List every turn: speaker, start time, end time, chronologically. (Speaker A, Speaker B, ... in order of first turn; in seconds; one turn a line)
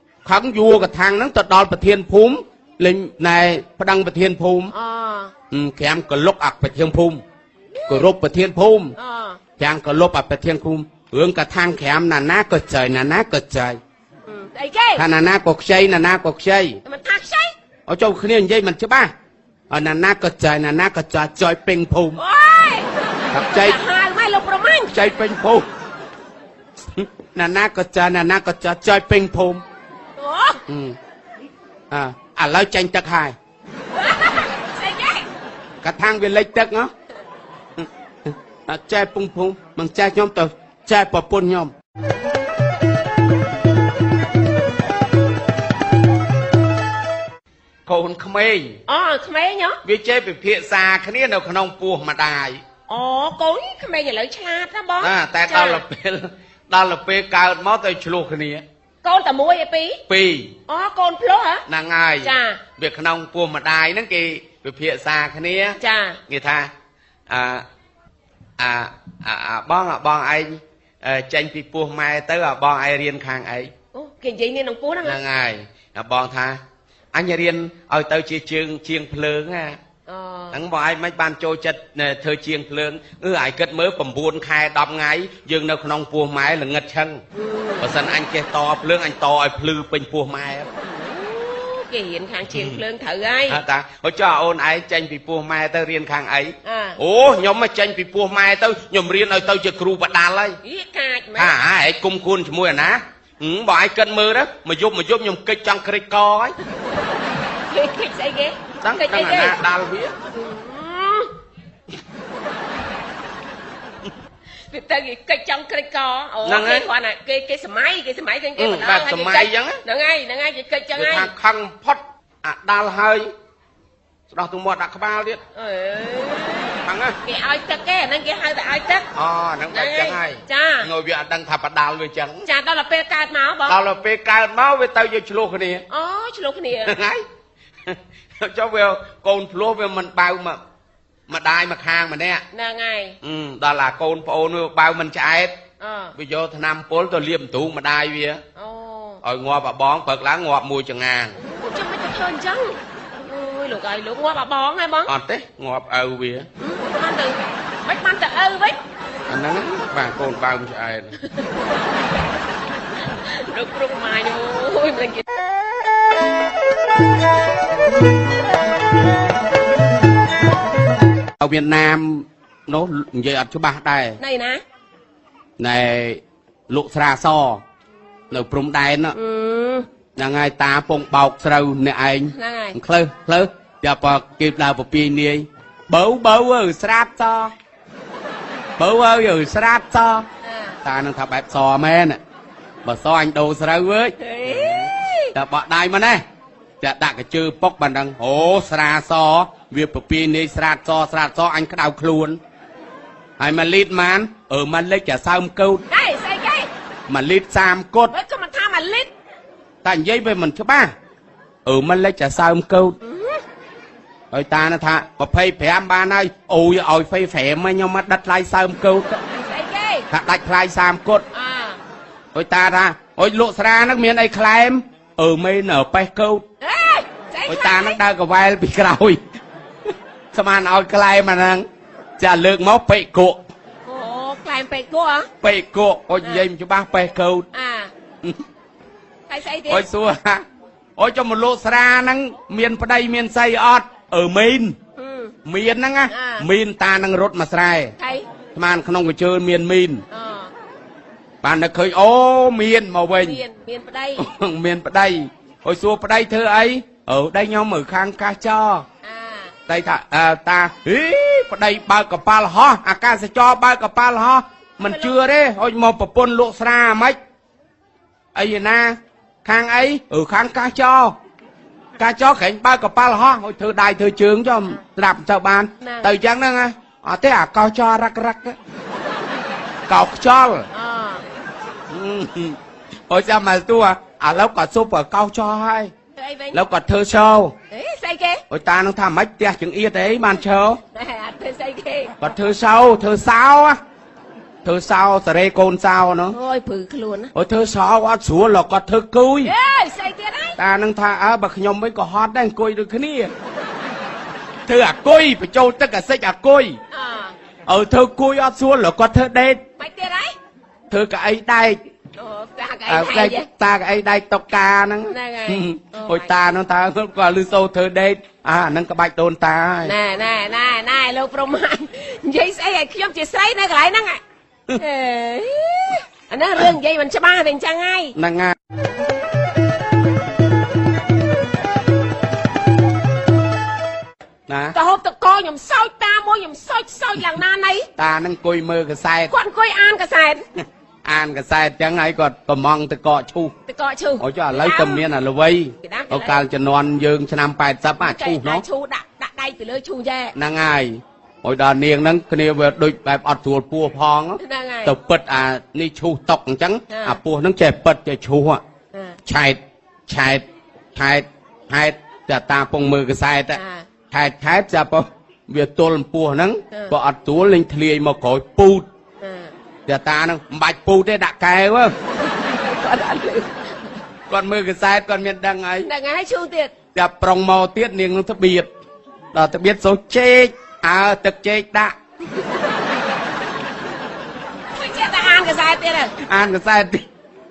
Speaker A: 0.2-4.7
Speaker B: 4.7-5.3
Speaker A: 5.5-7.2
Speaker B: 7.8-8.1
Speaker A: 7.9-8.9
Speaker B: 9.0-9.4
Speaker A: 9.6-13.8
Speaker B: 14.3-15.0
Speaker A: 15.0-16.8
Speaker B: 16.8-17.5
Speaker A: 17.9-19.1
Speaker A: 19.7-22.2
Speaker B: 22.2-25.1
Speaker A: 23.3-23.8
Speaker A: 24.9-25.7
Speaker A: 26.9-29.6
Speaker B: 30.2-30.6
Speaker A: 30.7-30.9
Speaker A: 31.9-33.3
Speaker B: 33.9-35.3
Speaker A: 35.8-36.9
Speaker A: 37.8-41.7
Speaker A: 47.9-48.8
Speaker B: 48.9-49.8
Speaker A: 49.8-52.6
Speaker B: 52.9-55.8
Speaker A: 55.0-58.6
Speaker B: 59.0-60.0
Speaker A: 60.1-60.5
Speaker B: 60.7-61.6
Speaker A: 61.7-66.7
Speaker B: 62.2-62.6
Speaker B: 65.8-66.2
Speaker A: 67.3-67.6
Speaker A: 68.6-73.7
Speaker B: 73.9-75.2
Speaker A: 75.0-76.6
Speaker A: 77.1-79.8
Speaker B: 80.1-80.6
Speaker A: 80.5-87.2
Speaker B: 87.3-88.0
Speaker A: 87.8-90.7
Speaker B: 90.7-93.6
Speaker A: 92.5-92.8
Speaker A: 93.5-100.6
Speaker B: 96.6-97.0
Speaker B: 100.6-101.5
Speaker A: 101.3-106.5
Speaker B: 106.9-109.6
Speaker A: 108.8-110.1
Speaker B: 110.3-111.3
Speaker B: 114.7-121.3
Speaker A: 116.4-116.9
Speaker A: 118.6-119.8
Speaker A: 121.0-123.3
Speaker A: 124.3-125.4
Speaker B: 125.5-129.1
Speaker A: 126.8-127.2
Speaker A: 129.1-132.4
Speaker B: 129.7-130.9
Speaker B: 132.4-133.8
Speaker A: 133.7-135.8
Speaker B: 135.9-136.9
Speaker A: 136.8-137.2
Speaker A: 137.9-140.6
Speaker A: 141.3-142.4
Speaker B: 142.5-143.2
Speaker A: 143.2-145.6
Speaker B: 145.8-146.1
Speaker A: 146.2-148.4
Speaker B: 148.6-149.2
Speaker A: 149.2-151.4
Speaker B: 151.4-155.1
Speaker A: 155.1-156.5
Speaker B: 156.6-158.8
Speaker A: 159.3-161.2
Speaker B: 161.3-161.6
Speaker B: 163.0-165.2
Speaker A: 171.4-174.2
Speaker B: 174.2-174.6
Speaker A: 175.6-177.6
Speaker A: 178.3-179.2
Speaker B: 179.1-179.8
Speaker A: 180.2-187.5
Speaker B: 182.3-182.8
Speaker A: 188.8-190.2
Speaker B: 190.4-190.8
Speaker A: 190.8-192.2
Speaker A: 192.8-196.2
Speaker B: 194.2-195.3
Speaker A: 196.8-202.4
Speaker A: 203.4-205.8
Speaker B: 205.9-206.7
Speaker A: 207.1-208.1
Speaker B: 208.1-209.1
Speaker A: 209.8-210.9
Speaker A: 211.6-212.9
Speaker B: 213.0-213.4
Speaker A: 214.3-219.2
Speaker B: 219.3-220.1
Speaker A: 220.1-221.2
Speaker B: 221.3-221.8
Speaker A: 222.3-226.4
Speaker B: 226.6-228.0
Speaker A: 227.5-229.2
Speaker A: 230.3-231.7
Speaker A: 232.2-233.4
Speaker B: 233.8-235.3
Speaker A: 235.4-237.4
Speaker B: 237.5-237.9
Speaker B: 239.3-239.8
Speaker A: 239.7-240.4
Speaker A: 241.0-244.8
Speaker B: 245.0-245.3
Speaker A: 245.4-247.9
Speaker B: 246.1-246.4
Speaker B: 248.0-248.2
Speaker A: 248.5-250.0
Speaker B: 250.1-250.5
Speaker A: 251.4-253.4
Speaker B: 253.2-254.2
Speaker A: 254.2-258.8
Speaker B: 259.0-259.5
Speaker A: 259.7-267.2
Speaker B: 264.8-265.1
Speaker A: 268.3-271.2
Speaker A: 272.0-278.6
Speaker B: 275.8-276.1
Speaker A: 279.9-280.7
Speaker B: 280.7-281.2
Speaker A: 281.9-282.6
Speaker A: 283.1-285.9
Speaker B: 286.1-286.6
Speaker A: 286.5-287.6
Speaker B: 287.7-288.4
Speaker A: 288.5-290.8
Speaker B: 290.9-292.2
Speaker A: 292.2-293.8
Speaker A: 294.6-296.4
Speaker B: 296.3-297.3
Speaker A: 297.3-299.5
Speaker B: 299.4-300.6
Speaker A: 300.6-303.3
Speaker A: 304.7-306.8
Speaker B: 306.9-307.3
Speaker A: 307.7-309.6
Speaker B: 309.8-310.3
Speaker A: 310.9-311.8
Speaker B: 312.1-313.4
Speaker A: 312.9-319.9
Speaker B: 315.1-316.3
Speaker B: 319.8-324.2
Speaker B: 324.8-328.1
Speaker A: 328.1-328.6
Speaker A: 334.5-334.8
Speaker B: 334.7-337.9
Speaker A: 338.0-339.3
Speaker B: 339.3-340.4
Speaker A: 341.0-343.5
Speaker B: 343.7-345.0
Speaker A: 344.2-348.6
Speaker B: 345.8-346.4
Speaker B: 348.0-350.3
Speaker A: 350.3-358.6
Speaker B: 354.4-354.9
Speaker B: 356.9-357.2
Speaker B: 358.9-359.2
Speaker A: 359.2-360.4
Speaker A: 360.9-363.6
Speaker B: 363.5-363.9
Speaker A: 364.1-368.9
Speaker B: 369.2-369.5
Speaker A: 369.9-371.9
Speaker B: 372.2-374.0
Speaker A: 374.3-375.9
Speaker B: 375.8-376.7
Speaker A: 376.9-378.7
Speaker A: 379.3-381.9
Speaker B: 384.7-386.1
Speaker A: 386.2-387.0